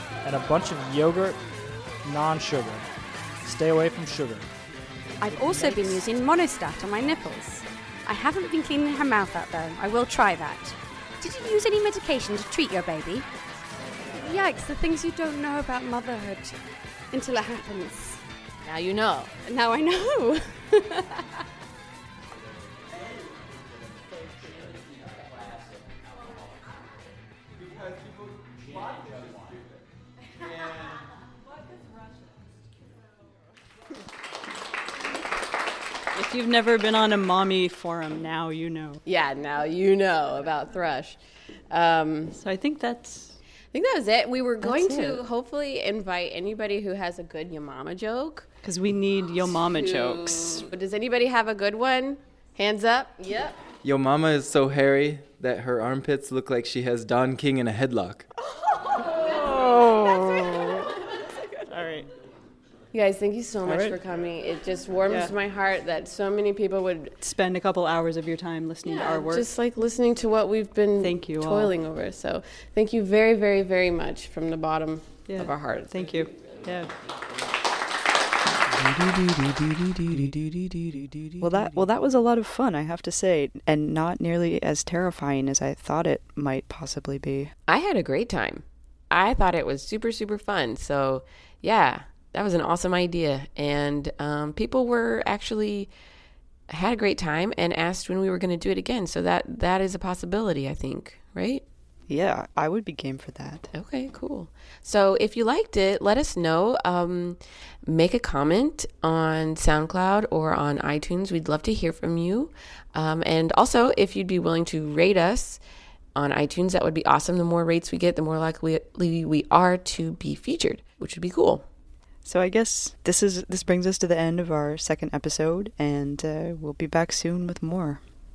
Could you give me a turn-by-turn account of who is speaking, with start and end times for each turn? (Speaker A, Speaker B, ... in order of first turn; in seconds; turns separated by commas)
Speaker A: 0.2-1.4, Speaker A: 2.0-2.9, Speaker A: 3.4-4.5, Speaker B: 5.2-13.3, Speaker A: 5.5-6.0, Speaker B: 14.2-18.2, Speaker C: 18.6-19.3, Speaker B: 19.4-21.1, Speaker D: 36.1-39.0, Speaker E: 39.0-42.4, Speaker D: 42.3-43.4, Speaker E: 43.7-48.5, Speaker D: 44.6-45.2, Speaker D: 48.6-50.7, Speaker E: 49.7-53.6, Speaker F: 53.8-58.3, Speaker E: 60.0-60.5, Speaker D: 61.7-62.1, Speaker E: 62.9-67.2, Speaker D: 63.6-64.0, Speaker D: 65.1-65.3, Speaker D: 67.2-69.5, Speaker E: 68.9-76.0, Speaker D: 71.0-71.7, Speaker D: 75.2-76.9, Speaker G: 81.4-87.5, Speaker C: 87.7-95.9, Speaker C: 96.7-101.6, Speaker G: 102.1-103.7, Speaker C: 103.7-115.6, Speaker C: 116.2-121.7, Speaker G: 122.2-128.0